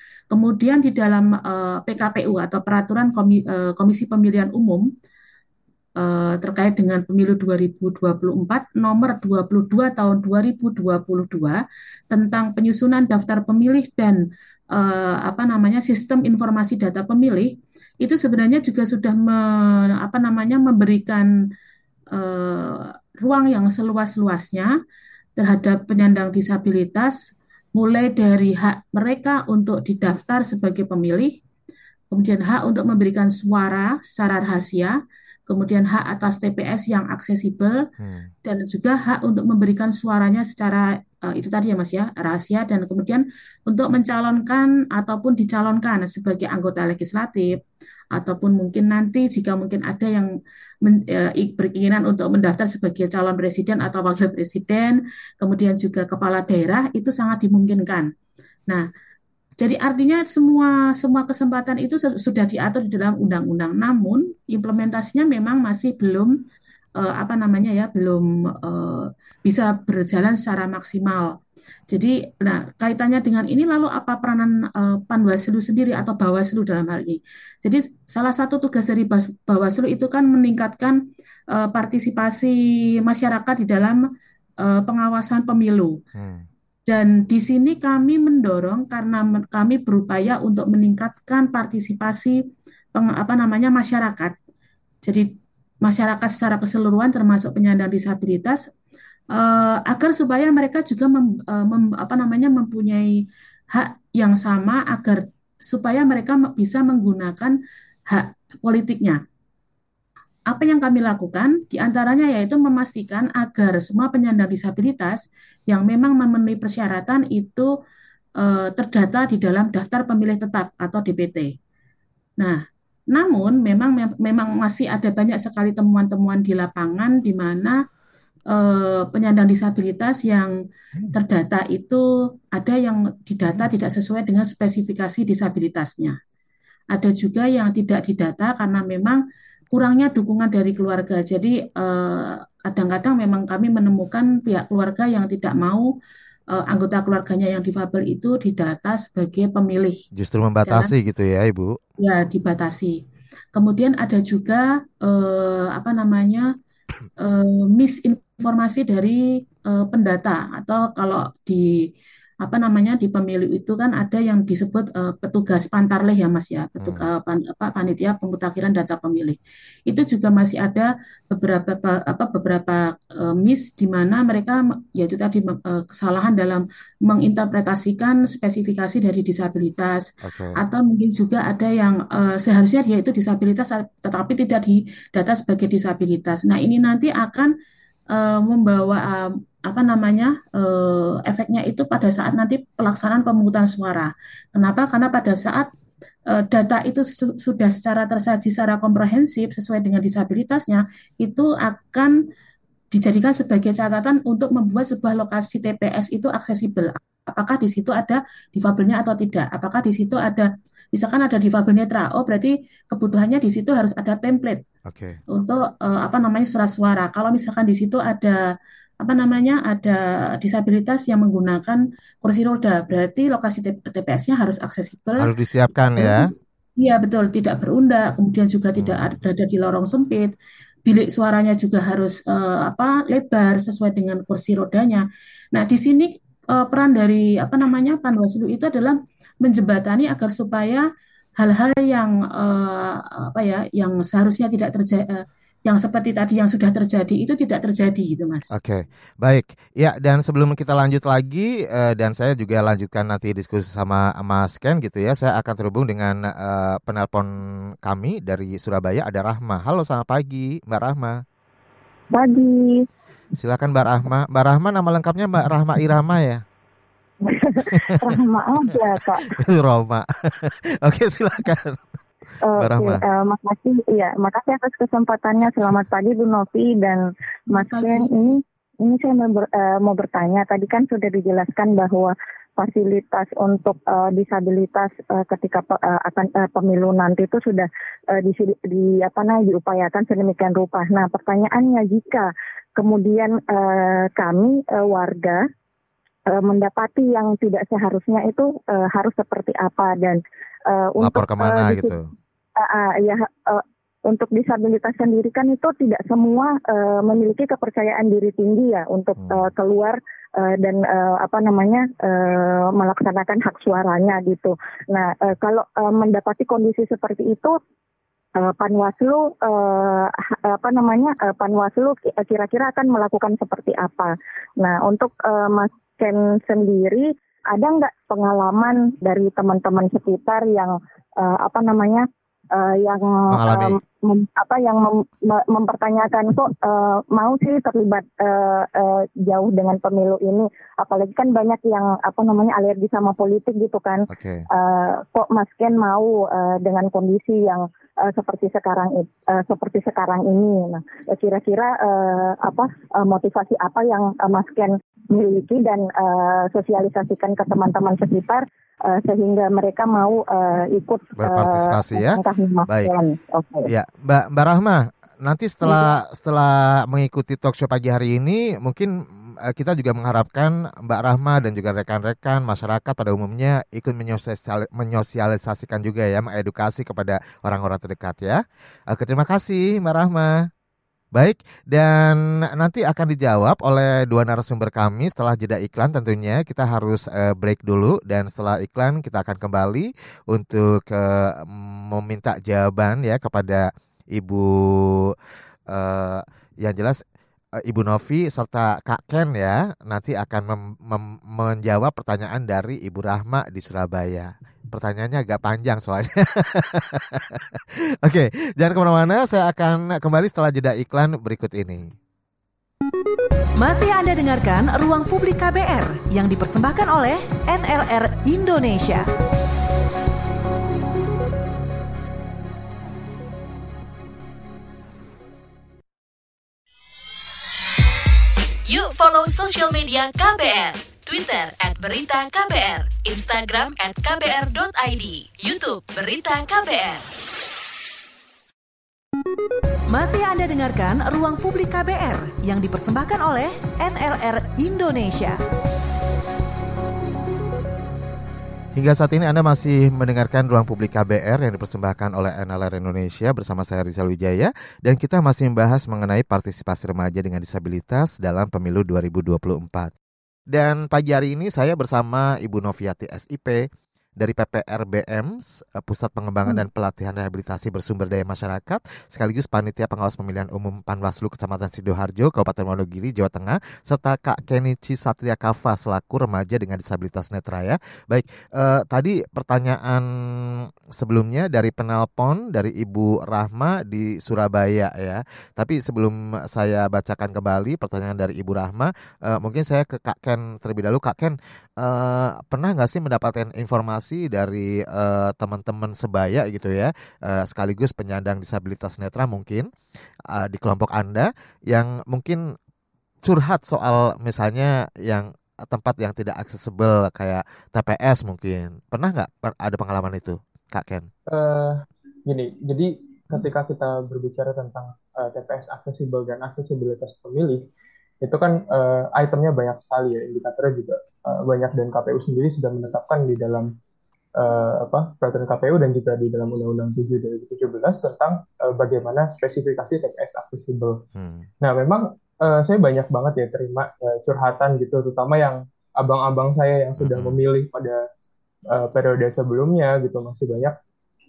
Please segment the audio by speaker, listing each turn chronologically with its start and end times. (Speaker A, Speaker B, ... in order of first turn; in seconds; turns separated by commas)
Speaker A: 0.3-4.8, Speaker A: 6.0-14.2, Speaker A: 14.7-21.3, Speaker A: 22.1-24.7, Speaker A: 25.4-27.2, Speaker A: 27.8-31.3, Speaker A: 32.1-35.0, Speaker A: 35.5-37.8, Speaker B: 38.0-38.3, Speaker A: 38.4-47.6, Speaker A: 48.1-50.3, Speaker A: 50.8-58.1, Speaker A: 59.6-66.3, Speaker A: 67.0-71.3, Speaker A: 71.9-81.0, Speaker A: 81.5-84.0, Speaker A: 84.6-85.9, Speaker B: 86.1-86.5, Speaker A: 86.9-92.3, Speaker A: 92.9-94.3, Speaker A: 95.0-95.3, Speaker A: 95.8-98.6, Speaker A: 99.3-103.1, Speaker A: 103.7-107.5, Speaker A: 108.1-109.2, Speaker A: 110.5-117.7, Speaker A: 118.4-121.5, Speaker A: 123.1-127.8, Speaker A: 128.5-130.5, Speaker A: 131.1-136.2, Speaker A: 136.9-139.2, Speaker A: 139.7-145.9, Speaker A: 146.5-150.0, Speaker B: 150.1-151.8, Speaker A: 150.6-150.9, Speaker A: 152.0-152.9, Speaker A: 153.5-156.5, Speaker A: 157.2-161.7, Speaker A: 162.4-180.1, Speaker B: 166.8-167.1, Speaker B: 180.2-180.6, Speaker A: 180.6-187.5, Speaker A: 188.1-195.7, Speaker A: 196.3-202.1, Speaker A: 202.9-214.6, Speaker B: 214.8-215.2, Speaker A: 215.3-218.4, Speaker A: 219.0-225.3, Speaker B: 225.2-226.3, Speaker A: 225.9-230.3, Speaker B: 228.7-229.2, Speaker A: 230.8-240.9, Speaker A: 241.4-248.5, Speaker B: 248.5-257.3, Speaker B: 257.8-261.2, Speaker C: 262.1-262.9, Speaker B: 263.3-266.4, Speaker C: 267.2-269.3, Speaker B: 267.7-268.1, Speaker B: 269.2-271.8, Speaker C: 272.5-295.4, Speaker B: 272.6-273.0, Speaker A: 277.6-278.2, Speaker C: 296.3-301.9, Speaker B: 301.0-302.1, Speaker C: 302.6-317.6, Speaker B: 309.1-309.5, Speaker C: 318.4-363.7, Speaker B: 333.3-333.8, Speaker B: 344.1-344.4, Speaker B: 361.2-362.9, Speaker B: 363.7-368.9, Speaker B: 369.5-380.5, Speaker B: 381.1-395.1, Speaker B: 395.7-397.0, Speaker B: 397.6-411.9, Speaker D: 413.6-419.1, Speaker E: 428.6-437.1, Speaker D: 439.9-445.4, Speaker B: 448.8-459.9, Speaker B: 460.5-463.6, Speaker B: 464.2-499.7, Speaker B: 500.3-502.5, Speaker B: 503.2-511.1, Speaker F: 511.3-517.6, Speaker F: 518.2-523.7, Speaker F: 524.4-531.0, Speaker B: 531.1-531.5, Speaker F: 531.6-538.0, Speaker B: 537.0-537.4, Speaker F: 538.7-540.8